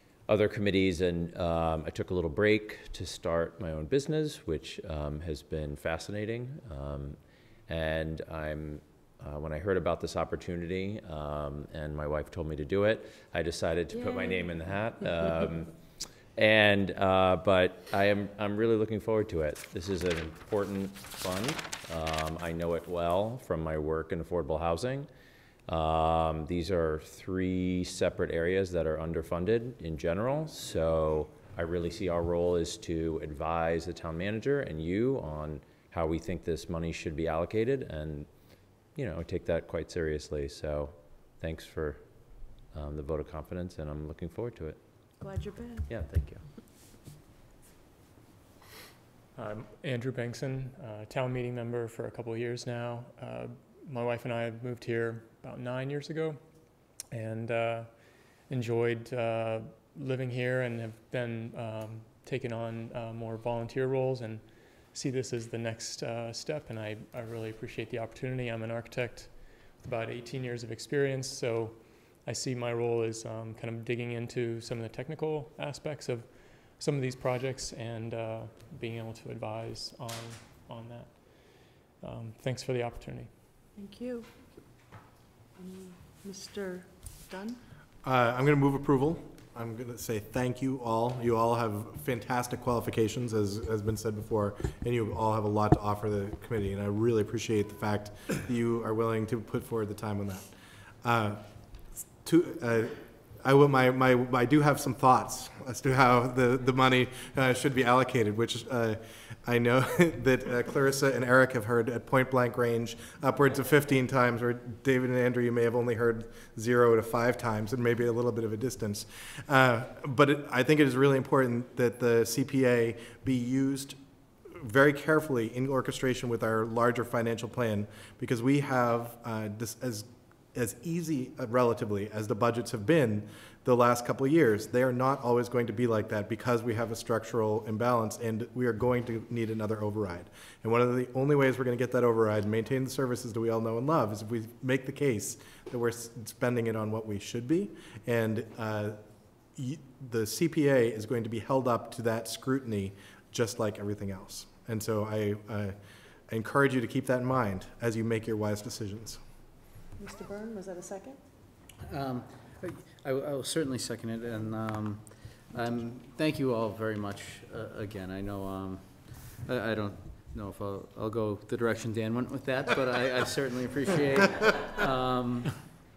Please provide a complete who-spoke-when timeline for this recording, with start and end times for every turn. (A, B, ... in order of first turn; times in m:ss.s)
0:00.2-0:25.1 A
0:13.9-0:14.8 B
0:25.6-0:45.0 A
0:45.2-0:45.9 B
0:45.9-0:46.5 A
0:49.4-1:23.3 C
1:23.8-1:24.9 B
1:25.6-1:27.6 B
1:28.0-2:35.8 D
2:36.3-2:39.2 D
2:40.0-2:41.2 B
2:41.9-2:55.8 E